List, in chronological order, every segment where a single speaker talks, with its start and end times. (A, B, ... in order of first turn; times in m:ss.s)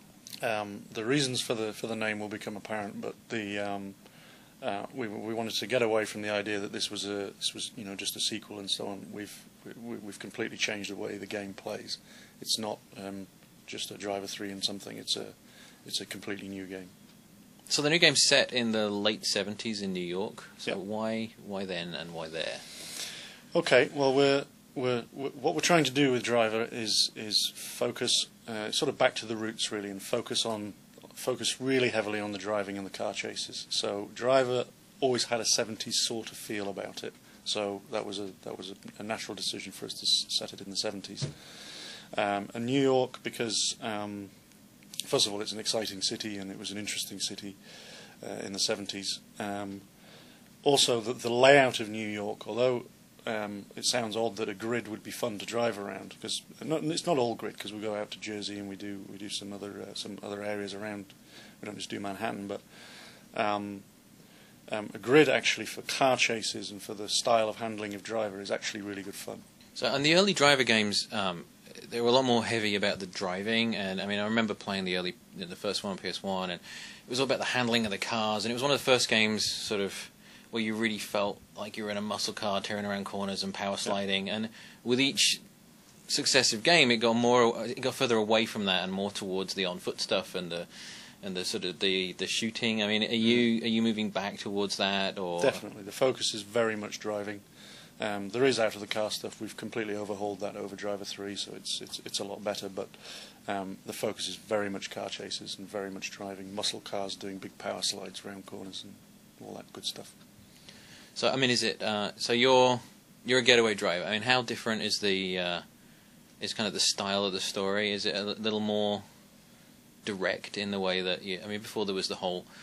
0:00.4-0:04.0 A
0:04.6-0:16.9 A
0:17.7-0:22.6 B
0:23.5-0:44.3 A
0:45.0-0:47.6 A
0:48.2-0:49.8 A
0:50.6-1:02.8 A
1:03.3-1:03.8 A
1:04.7-1:09.4 A
1:09.8-1:25.4 B
1:26.1-1:35.6 B
1:35.4-1:37.4 A
1:38.0-1:50.1 A
1:51.1-1:55.6 B
1:56.4-1:59.0 B
2:00.0-2:02.5 B